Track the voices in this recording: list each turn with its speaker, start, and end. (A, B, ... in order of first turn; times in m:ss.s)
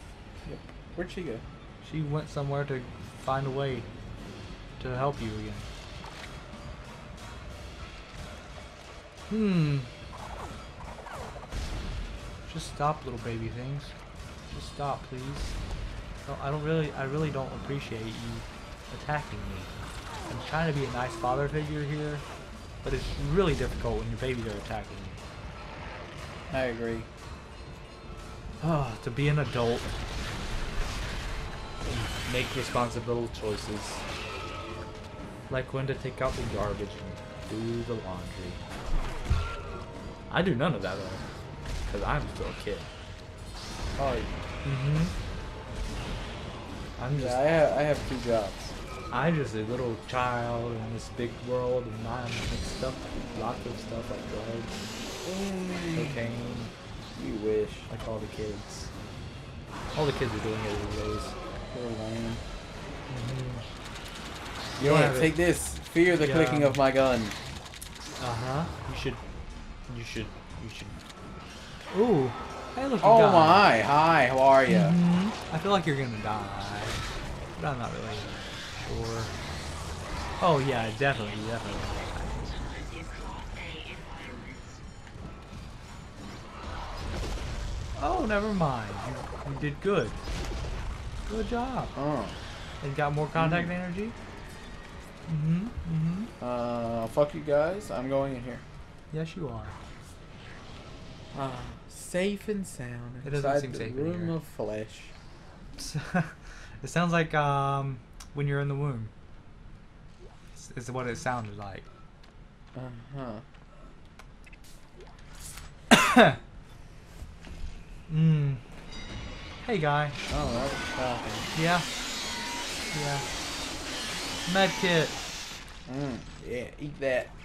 0:00.4-0:01.4 A
0:01.8-0:03.9 B
0:04.8-0:05.7 B
0:09.3-0:09.9 B
0:12.5-0:13.9 B
0:14.5-0:15.5 B
0:16.2-0:19.7 B
0:20.3-0:22.2 B
0:22.8-0:25.2 B
0:26.5-0:27.1 A
0:28.6-0:29.9 B
0:31.8-0:34.0 B
0:35.5-0:38.6 B
0:40.3-0:41.2 B
0:41.8-0:42.9 B
0:44.0-0:44.3 A
0:44.6-0:45.1 B
0:47.0-0:47.4 B
0:47.1-0:48.7 A
0:49.1-0:54.8 B
0:55.2-0:56.2 A
0:55.9-0:56.7 B
0:57.1-0:57.9 A
0:57.9-0:58.9 B
0:59.9-1:01.3 B
1:01.7-1:02.4 A
1:03.1-1:03.6 B
1:04.8-1:05.4 B
1:04.8-1:07.4 A
1:06.1-1:06.8 B
1:08.2-1:09.2 B
1:09.9-1:11.0 B
1:11.9-1:13.6 B
1:13.0-1:15.0 A
1:14.7-1:19.3 B
1:20.4-1:22.6 B
1:28.0-1:30.2 B
1:31.3-1:31.9 B
1:31.9-1:32.4 A
1:32.8-1:34.1 B
1:33.3-1:33.7 A
1:35.3-1:36.3 B
1:36.4-1:38.6 A
1:39.1-1:39.8 B
1:41.3-1:45.1 A
1:43.2-1:44.3 B
1:45.8-1:49.1 B
1:50.6-1:51.8 B
1:52.7-1:53.4 A
1:55.9-1:56.4 B
1:58.1-1:58.6 B
1:59.6-2:00.2 B
2:00.3-2:01.5 A
2:01.5-2:01.8 B
2:02.9-2:03.2 B
2:04.5-2:05.1 B
2:05.8-2:07.3 A